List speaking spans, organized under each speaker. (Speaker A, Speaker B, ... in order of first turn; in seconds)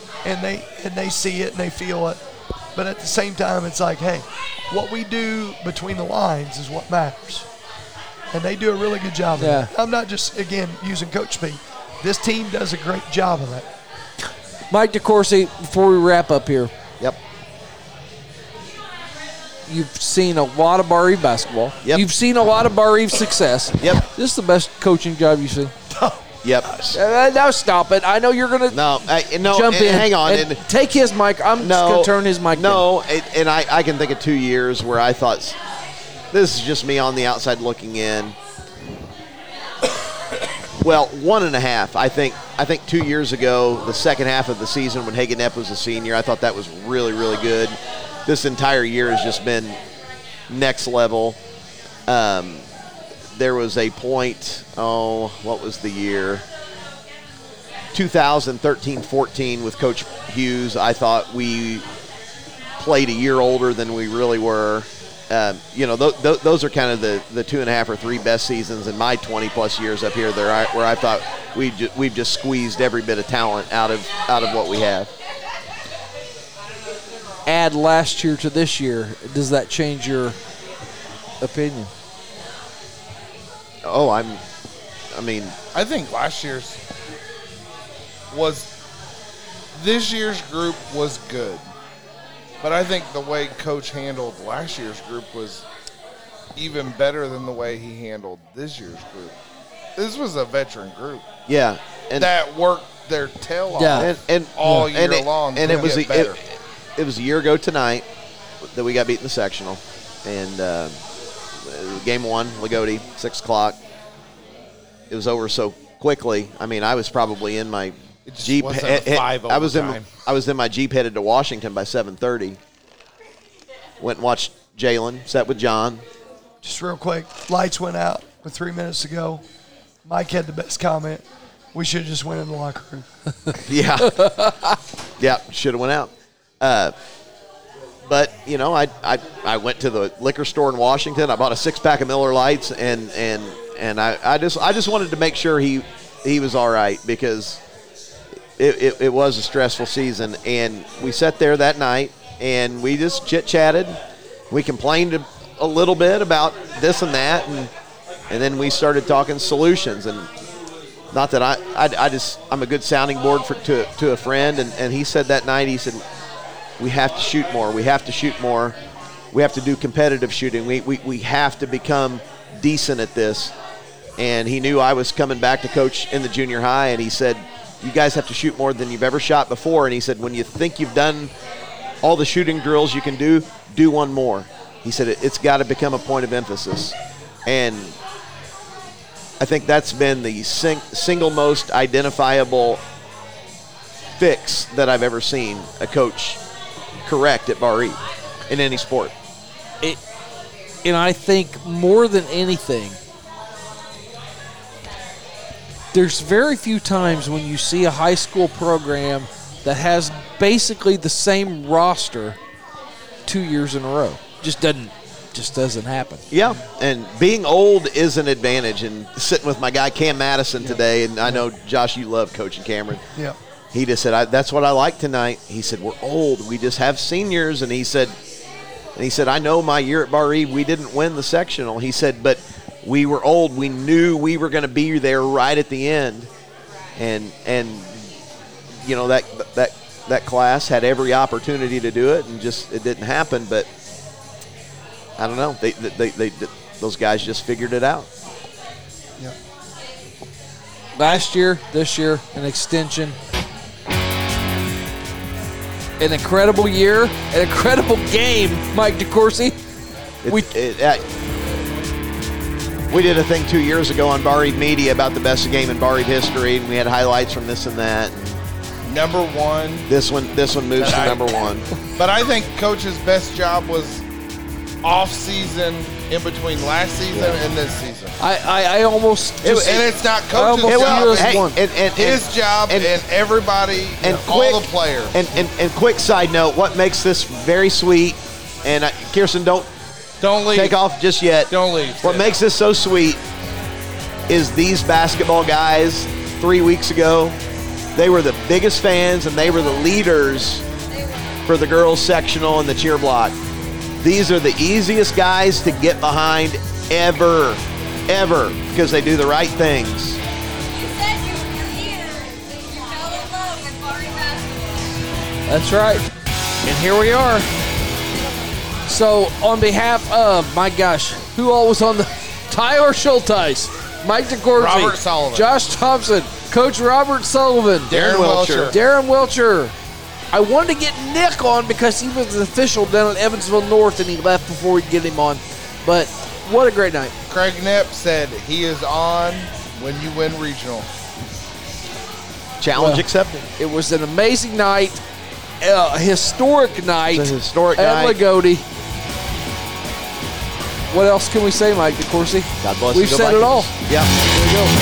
Speaker A: 0.2-2.2, 2.8-7.5, 8.3-13.7, 25.9-26.9, 126.6-129.4, 130.1-133.1
Speaker B: 9.4-9.7, 14.7-16.7, 19.7-25.7, 26.9-28.9, 29.5-32.9, 77.5-80.4, 81.4-81.9, 103.8-104.1, 134.0-134.8, 200.8-203.0, 205.9-212.4, 213.3-216.2, 251.0-253.2, 256.0-259.6, 278.2-281.6, 315.5-316.1, 316.6-317.5, 318.9-327.9, 328.7-329.7, 330.3-337.1, 342.8-343.1, 343.6-345.0, 345.6-348.6, 350.9-353.7, 354.4-354.7
Speaker C: 26.4-26.9, 28.7-30.6, 31.6-35.6, 36.3-38.4, 40.8-49.8, 50.5-51.4, 52.1-52.6, 53.4-56.5, 57.9-61.9, 62.8-75.1, 83.8-84.4, 85.1-85.5, 101.5-102.3, 104.0-106.4, 107.0-108.0, 108.6-111.0, 111.6-113.8, 115.1-122.6, 124.0-126.0, 133.7-134.2, 135.2-136.9, 138.1-147.6, 148.6-154.0, 154.5-157.7, 158.3-160.3, 161.1-166.0, 166.8-168.8, 169.3-173.5, 174.2-181.3, 182.0-188.0, 189.4-192.8, 194.2-196.4, 197.1-199.1, 216.3-223.0, 223.7-228.2, 229.0-236.3, 237.0-238.1, 238.8-243.7, 245.2-248.1, 260.2-261.0, 262.9-268.3, 269.9-271.6, 277.1-277.4, 279.4-279.9, 280.7-282.9, 284.0-289.7, 290.5-291.5, 292.0-293.2, 294.3-297.4, 298.0-300.6, 301.5-303.4, 304.0-310.2, 327.9-328.7, 342.6-343.5, 347.1-348.2, 352.6-354.1
Speaker D: 85.7-86.8, 88.3-88.7, 89.8-91.7, 92.6-95.7, 96.6-99.3, 100.0-101.2, 102.2-106.4, 118.3-120.1, 268.9-269.9, 270.8-271.3, 272.0-274.0, 274.8-278.1, 279.4-285.3, 290.2-290.8, 291.5-292.4, 324.6-325.5, 327.9-328.8, 337.3-340.9